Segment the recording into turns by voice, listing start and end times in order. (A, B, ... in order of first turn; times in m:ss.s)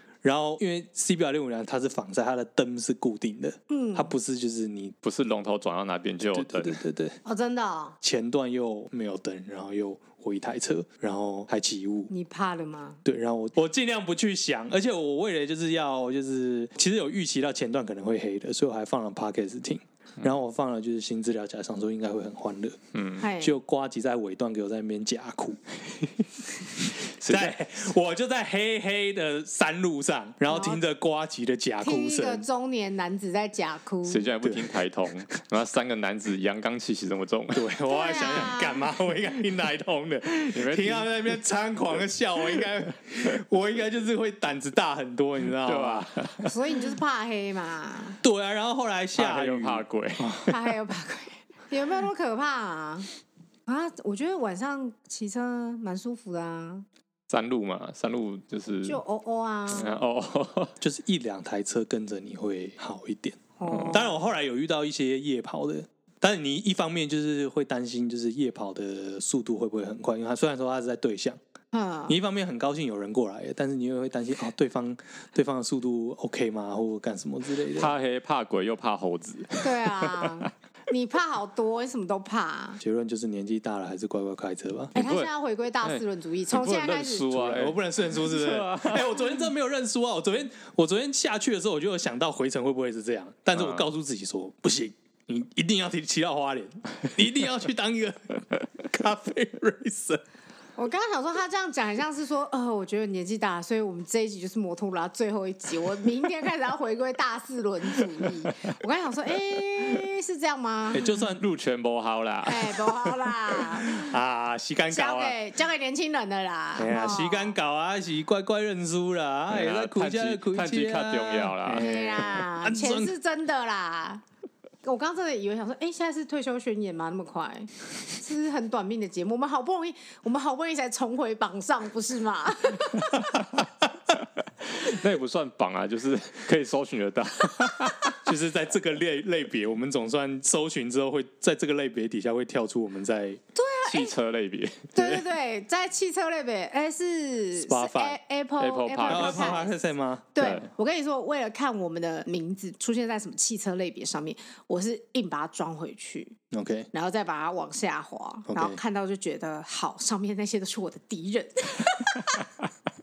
0:00.2-0:05.0 A
0:03.7-0:04.1 B
0:05.0-0:06.8 C
0:06.2-0:07.2 A
0:07.2-0:08.0 B
0:08.0-0:12.1 A
0:12.1-0:13.0 B
0:13.0-0:22.8 A
0:22.9-0:23.3 C
0:23.2-0:23.6 B
0:23.4-0:25.6 A
0:26.0-0:26.3 C
0:27.0-0:32.4 A
0:27.1-0:27.6 C
0:30.5-0:30.8 B
0:31.8-0:34.3 B
0:34.0-0:37.6 C
0:34.4-0:34.7 A
0:37.5-0:46.5 A
0:37.9-0:38.8 B
0:40.5-0:41.2 C
0:45.6-0:46.5 C
0:46.5-0:48.2 B
0:48.2-0:50.6 A
0:49.2-0:50.4 C
0:50.5-0:53.1 B
0:53.7-0:56.8 B
0:57.3-0:59.0 C
0:58.8-0:59.9 B
0:59.7-1:00.8 C
1:00.8-1:11.4 A
1:03.6-1:04.2 B
1:03.7-1:04.0 C
1:11.7-1:12.2 B
1:12.1-1:17.9 A
1:17.7-1:20.5 C
1:19.6-1:22.8 B
1:22.8-1:25.0 A
1:25.0-1:25.3 C
1:25.0-1:27.3 B
1:25.8-1:29.2 C
1:27.3-1:40.2 A
1:33.5-1:33.8 C
1:40.8-1:51.2 B
1:50.9-1:51.4 A
1:51.4-1:52.9 C
1:52.4-1:54.2 B
1:53.9-1:55.4 A
1:54.9-1:57.6 B
1:56.8-2:03.1 A
1:59.5-2:02.3 C
2:01.8-2:04.2 B
2:04.8-2:13.3 B
2:14.6-2:18.2 C
2:18.2-2:23.4 A
2:23.6-2:24.2 B
2:23.8-2:25.2 C
2:25.0-2:29.8 B
2:27.6-2:28.2 A
2:28.6-2:29.6 C
2:29.1-2:30.3 A
2:30.4-2:36.4 B
2:30.4-2:30.7 C
2:36.5-2:36.9 A
2:36.9-2:42.5 B
2:38.5-2:38.8 A